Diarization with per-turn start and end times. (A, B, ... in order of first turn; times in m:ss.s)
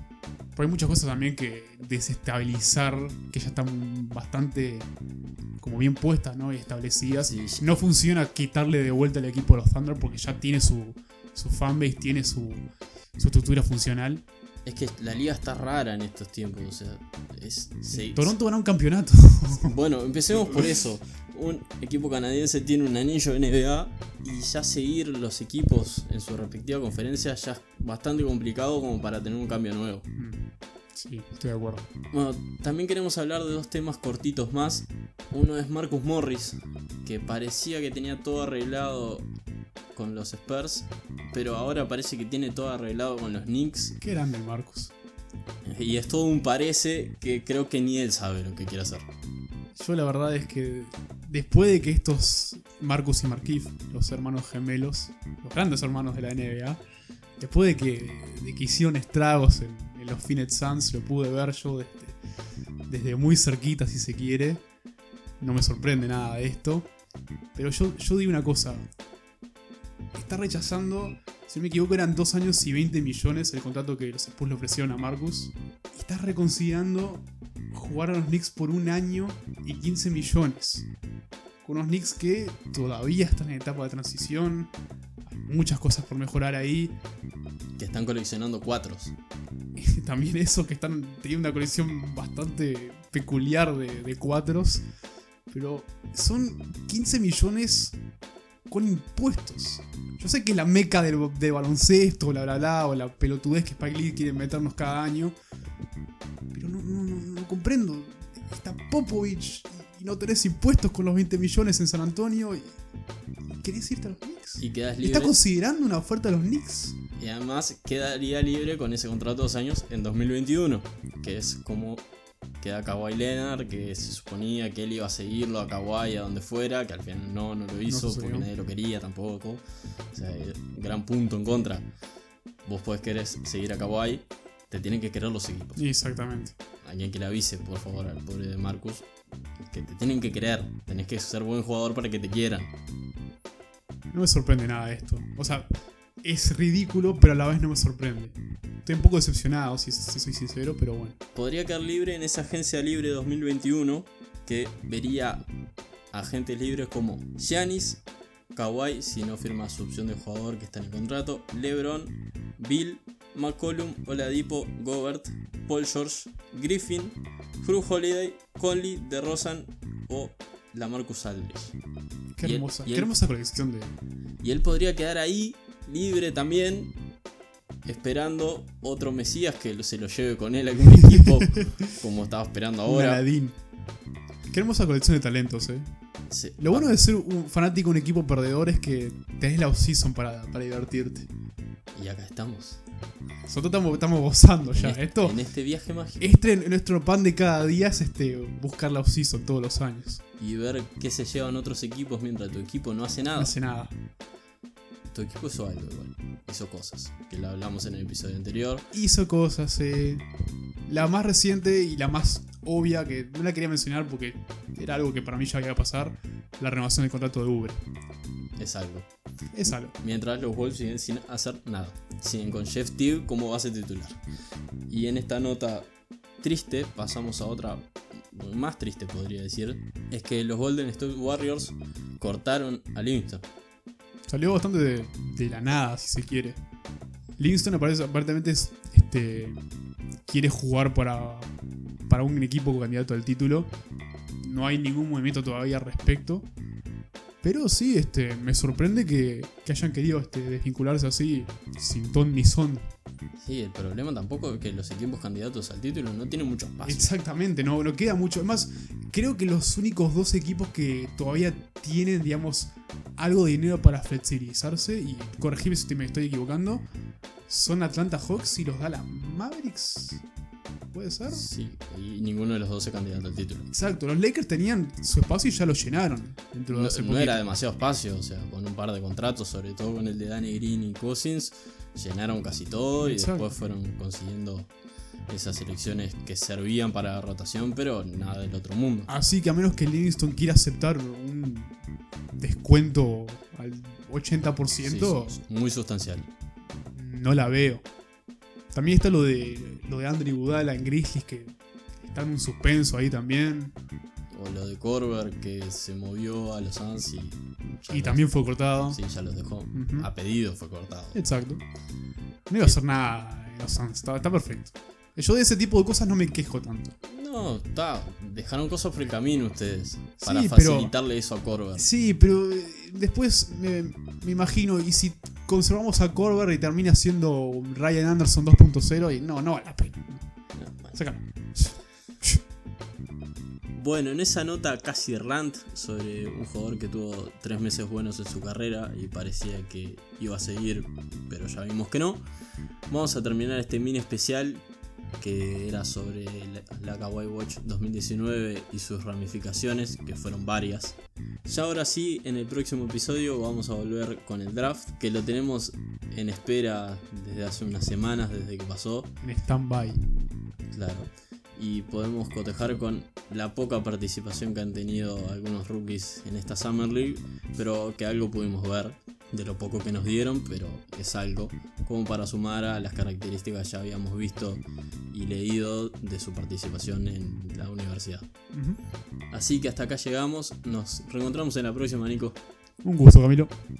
0:00.6-0:04.9 A
0:05.6-0:14.2 A
0:07.2-0:07.6 B
0:14.6-0:18.3 B
0:17.9-0:19.7 A
0:19.5-0:30.1 B
0:20.4-0:20.8 A
0:30.2-0:31.8 A
0:32.1-0:39.3 B
0:39.9-0:44.0 B
0:44.0-0:44.9 A
0:45.6-0:49.1 B
0:49.8-0:56.8 A
0:57.4-1:02.2 A
1:02.9-1:04.6 A
1:05.4-1:06.9 A
1:07.6-1:08.9 A
1:10.1-1:20.9 A
1:21.6-1:24.7 A
1:25.3-1:27.0 A
1:27.8-1:29.1 B
1:29.8-1:34.8 A
1:35.5-1:38.0 A
1:38.7-1:45.4 A
1:46.5-1:52.8 A
1:53.5-1:57.0 A
1:54.6-1:55.4 B
1:57.2-2:02.0 B
2:02.6-2:09.6 B
2:07.9-2:08.5 A
2:10.1-2:11.9 B
2:12.6-2:15.8 B
2:15.8-2:16.6 A
2:16.8-2:22.7 B
2:24.1-2:25.7 A
2:26.2-2:31.2 A
2:31.4-2:35.5 B
2:36.1-2:38.0 B
2:38.5-2:51.8 B
2:52.4-2:54.0 A
2:52.4-2:53.1 B
2:54.4-2:56.9 B
2:57.8-3:03.2 B
3:01.1-3:01.8 A
3:02.9-3:03.6 A
3:04.5-3:05.9 A
3:06.3-3:06.9 B
3:06.6-3:11.3 A
3:11.9-3:12.8 B
3:13.5-3:15.4 A
3:14.7-3:16.3 B
3:16.2-3:20.2 A
3:20.4-3:23.6 B
3:23.4-3:23.9 A
3:25.1-3:28.9 B
3:28.9-3:30.3 A
3:30.9-3:37.8 A
3:38.6-3:39.1 B
3:39.5-3:39.9 A
3:39.6-3:44.2 B
3:44.9-3:53.4 B
3:54.3-3:56.6 A
3:57.4-3:59.6 A
4:00.3-4:01.5 A
4:02.1-4:03.7 A
4:04.4-4:06.5 A
4:07.4-4:12.9 A
4:13.4-4:17.1 B
4:16.8-4:26.9 A
4:27.5-4:30.2 A
4:30.9-4:31.5 A
4:31.3-4:33.7 B
4:33.7-4:37.4 A
4:36.7-4:44.7 B
4:43.0-4:43.6 A
4:45.3-4:49.1 B
4:49.1-4:51.8 A
4:52.4-4:55.4 A
4:54.8-4:56.3 B
4:56.9-4:57.8 A
4:58.7-5:03.8 A
5:04.3-5:11.2 B
5:07.9-5:09.0 A
5:09.7-5:10.1 A
5:11.1-5:11.6 A
5:12.5-5:16.9 A
5:17.0-5:21.9 B
5:20.2-5:20.9 A
5:21.7-5:30.3 A
5:30.6-5:31.0 B
5:30.9-5:32.4 A
5:33.8-5:42.2 B
5:42.9-5:44.7 B
5:45.2-5:59.1 B
5:59.2-6:00.0 A
6:00.7-6:18.2 B
6:18.5-6:18.8 A
6:19.3-6:22.4 B
6:22.8-6:23.6 A